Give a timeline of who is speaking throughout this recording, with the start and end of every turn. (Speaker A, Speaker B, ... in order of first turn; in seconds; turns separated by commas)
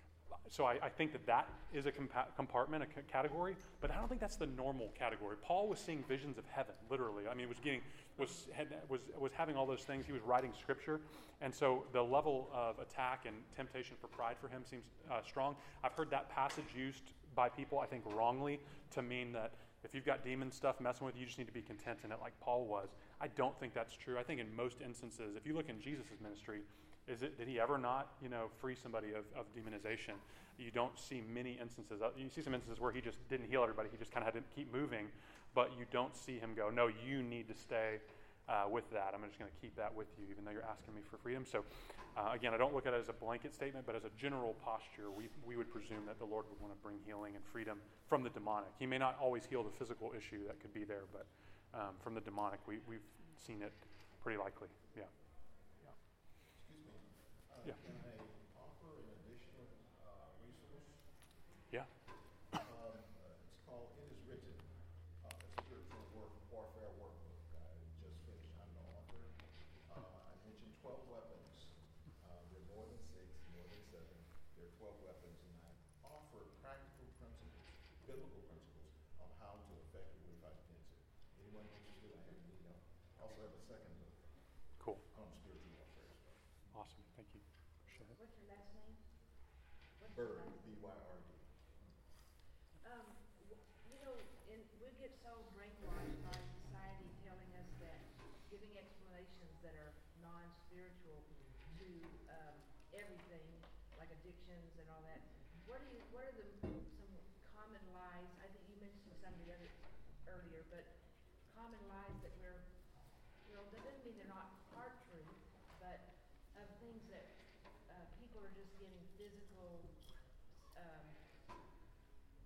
Speaker A: 0.5-56.0, Speaker B: 56.5-61.4, Speaker B: 62.5-86.6, Speaker A: 84.8-85.0, Speaker A: 86.7-88.2, Speaker C: 88.0-90.7, Speaker B: 90.0-91.6, Speaker C: 92.8-120.0, Speaker C: 120.7-121.2